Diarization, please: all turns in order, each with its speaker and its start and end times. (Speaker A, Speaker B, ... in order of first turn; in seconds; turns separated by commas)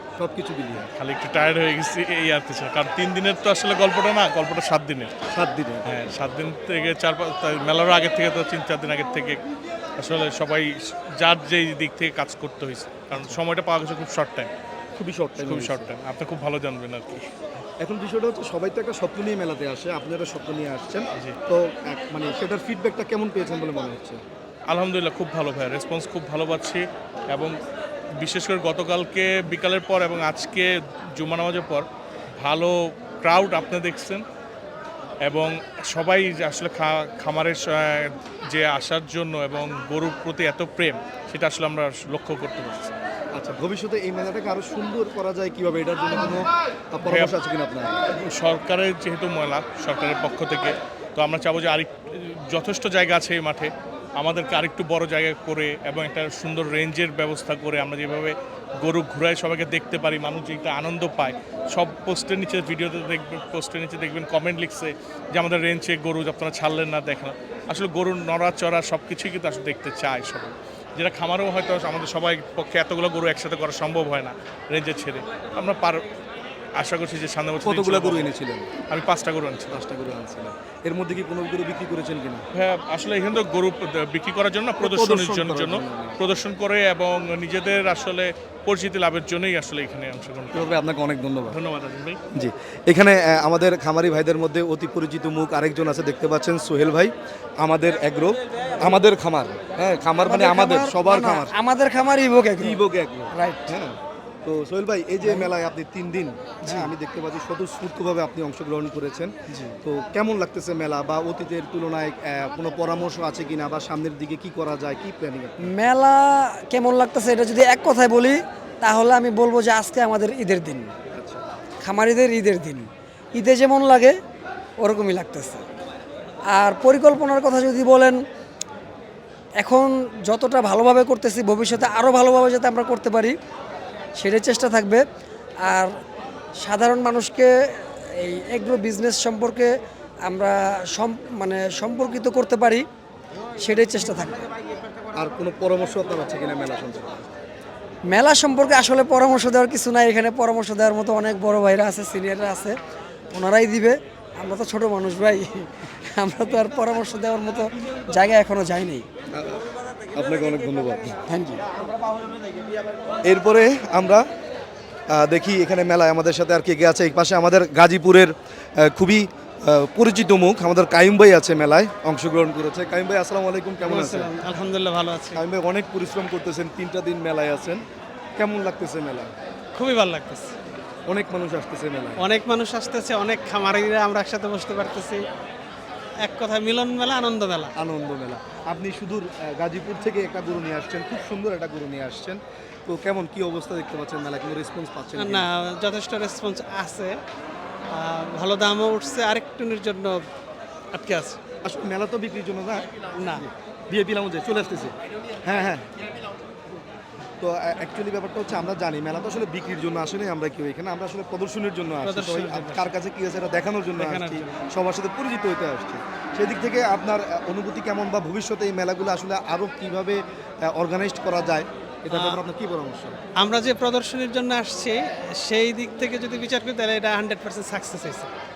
Speaker A: 0.2-0.9, Speaker B: 0.9-5.1, Speaker A: 5.3-5.9, Speaker B: 5.8-9.4, Speaker B: 10.0-14.5, Speaker A: 14.9-15.9, Speaker B: 15.4-17.2, Speaker A: 17.8-24.2, Speaker B: 24.7-27.6, Speaker B: 28.2-31.8, Speaker B: 32.4-34.2, Speaker B: 35.2-42.9, Speaker A: 43.3-48.0, Speaker B: 47.0-47.3, Speaker B: 48.1-76.0, Speaker B: 76.8-78.3, Speaker A: 77.6-78.7, Speaker B: 78.9-79.8, Speaker A: 79.7-82.5, Speaker B: 82.5-90.7, Speaker A: 84.8-86.2, Speaker A: 90.5-91.5, Speaker B: 91.5-92.2, Speaker A: 92.3-101.5, Speaker C: 100.2-103.7, Speaker A: 102.6-115.7, Speaker C: 106.6-106.9, Speaker C: 109.5-109.8, Speaker C: 115.7-120.9, Speaker A: 121.1-121.4, Speaker C: 121.8-124.2, Speaker C: 124.8-125.6, Speaker C: 126.5-128.2, Speaker C: 129.6-133.3, Speaker C: 134.2-135.0, Speaker C: 135.6-135.9, Speaker C: 136.6-139.7, Speaker C: 140.2-142.8, Speaker C: 143.6-144.4, Speaker A: 145.1-147.3, Speaker C: 148.1-152.8, Speaker C: 153.3-159.1, Speaker A: 159.3-159.6, Speaker A: 160.1-161.2, Speaker C: 161.3-161.6, Speaker A: 163.2-164.2, Speaker A: 165.1-174.3, Speaker D: 173.8-175.4, Speaker A: 175.3-177.8, Speaker A: 178.4-179.3, Speaker D: 179.7-180.5, Speaker A: 181.1-182.2, Speaker D: 182.2-185.2, Speaker D: 186.2-187.7, Speaker A: 187.8-195.5, Speaker D: 195.2-197.2, Speaker D: 197.9-200.2, Speaker D: 200.9-201.4, Speaker A: 201.6-202.9, Speaker D: 203.2-203.5, Speaker A: 203.9-205.9, Speaker A: 207.4-223.2, Speaker D: 212.0-212.9, Speaker D: 214.0-214.6, Speaker D: 222.1-222.4, Speaker D: 223.4-228.3